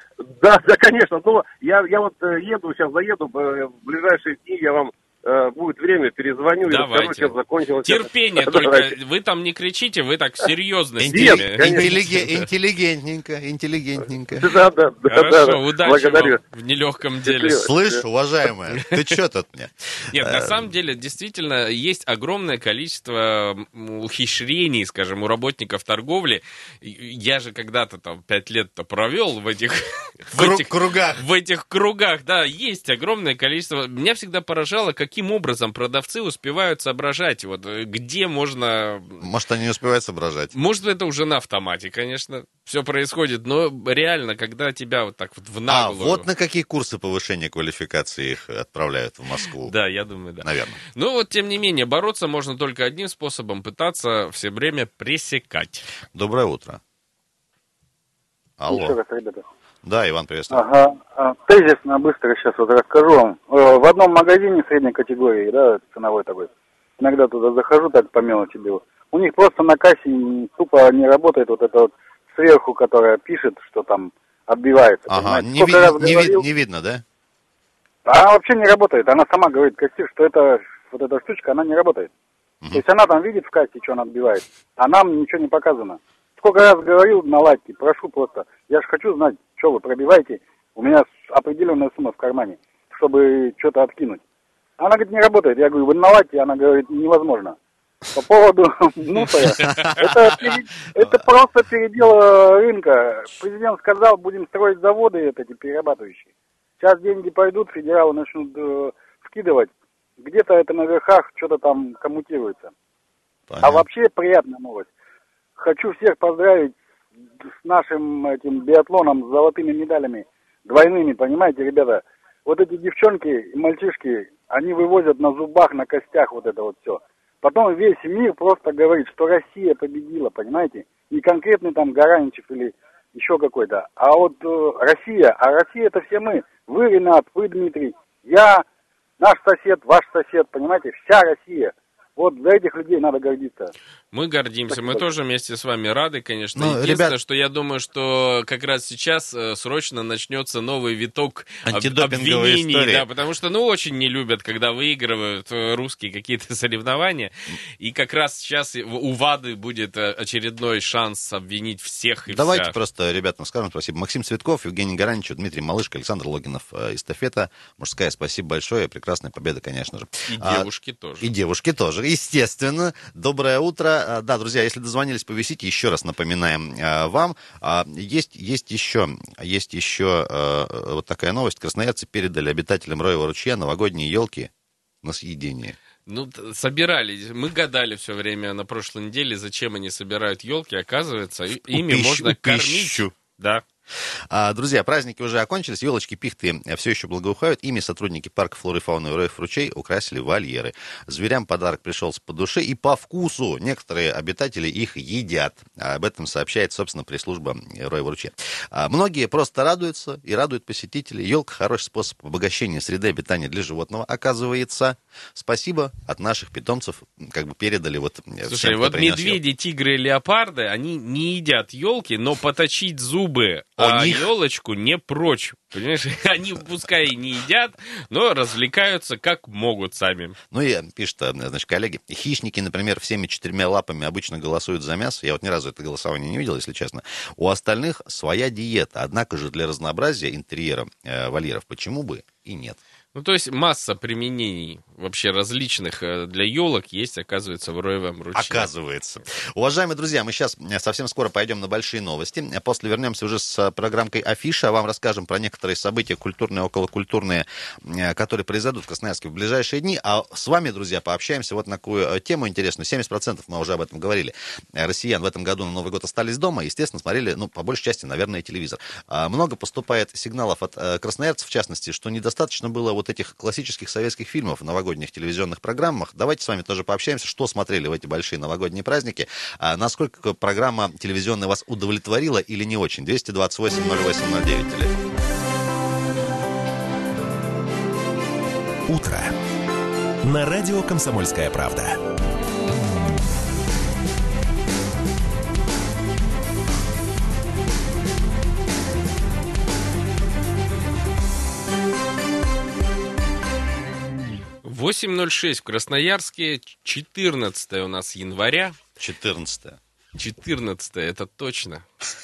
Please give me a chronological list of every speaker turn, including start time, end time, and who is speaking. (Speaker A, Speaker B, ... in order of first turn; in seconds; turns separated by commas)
Speaker A: 0.4-8.8, Speaker B: 6.6-12.4, Speaker C: 11.0-14.5, Speaker A: 11.1-11.8, Speaker B: 15.1-17.7, Speaker A: 15.9-16.2, Speaker C: 17.6-20.7, Speaker B: 20.1-39.2, Speaker C: 30.3-31.2, Speaker C: 39.2-40.5, Speaker B: 40.5-46.3, Speaker C: 45.7-49.7, Speaker B: 49.6-55.9, Speaker C: 50.4-50.8, Speaker C: 56.1-56.8, Speaker C: 58.6-59.0, Speaker D: 58.7-59.4, Speaker C: 59.8-60.6, Speaker D: 60.5-76.4, Speaker C: 75.1-77.0, Speaker D: 78.1-82.1, Speaker D: 82.7-94.2, Speaker D: 94.8-97.5, Speaker D: 98.1-106.3, Speaker D: 106.8-112.7, Speaker C: 113.5-113.8, Speaker D: 113.6-114.9, Speaker D: 115.6-116.7, Speaker D: 117.6-138.6, Speaker D: 139.2-143.7, Speaker B: 144.1-162.7, Speaker D: 144.7-145.0, Speaker C: 146.5-147.1, Speaker C: 151.6-153.0, Speaker C: 162.3-170.7, Speaker B: 170.3-171.3, Speaker C: 171.2-184.5, Speaker C: 185.0-185.8, Speaker B: 186.1-193.6, Speaker C: 191.5-193.1, Speaker C: 194.3-219.4, Speaker B: 218.4-230.3, Speaker C: 223.8-224.2, Speaker C: 230.5-242.8, Speaker B: 243.1-248.7, Speaker C: 248.3-285.0, Speaker E: 288.9-289.3, Speaker E: 290.2-292.0, Speaker B: 304.6-308.8, Speaker C: 309.0-309.8, Speaker B: 310.2-311.8